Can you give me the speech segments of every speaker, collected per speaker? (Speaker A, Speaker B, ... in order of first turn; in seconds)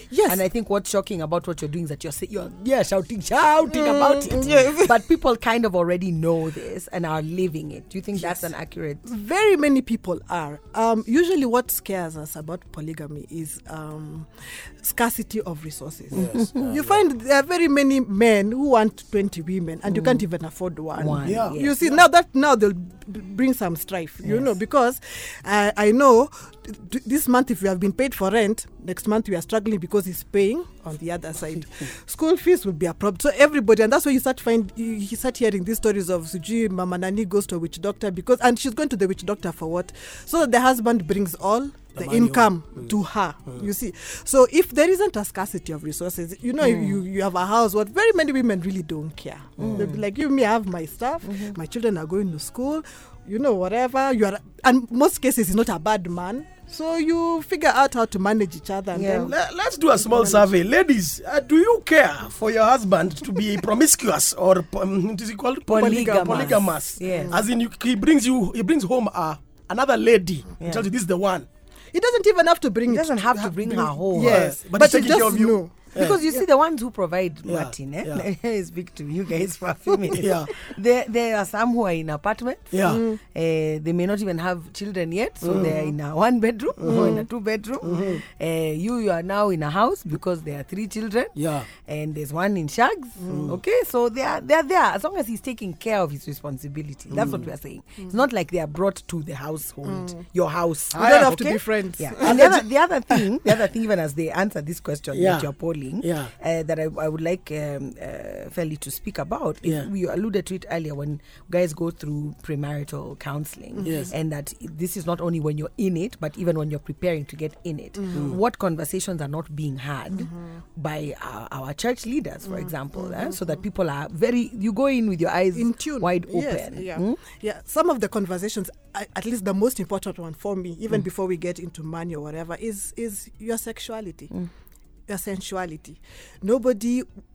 Speaker A: 0.1-0.4, 3.7-5.0, 8.2-8.5, 9.1-59.4, 65.8-67.4, 71.9-76.4, 82.9-83.2, 86.8-87.3, 93.2-93.5, 99.9-100.2, 101.0-102.6, 113.8-114.1, 118.0-118.3, 122.5-123.6, 125.5-134.3, 135.1-137.1
Speaker B: 0.3-9.1, 16.2-16.4, 19.9-20.2, 21.0-21.8, 49.6-50.0, 51.3-51.5, 58.9-59.3, 65.7-67.4, 70.6-70.8, 72.9-74.5, 76.0-127.2
Speaker C: 16.1-17.0, 21.2-21.6, 42.0-42.9, 49.6-49.9, 59.2-71.5, 74.1-76.2, 77.5-78.3, 80.1-80.6, 82.7-83.0, 85.4-85.8, 86.8-87.2, 87.8-88.2, 91.4-91.7, 93.3-93.6, 97.1-97.5, 100.9-101.4, 102.3-102.6, 105.1-106.3, 113.8-114.1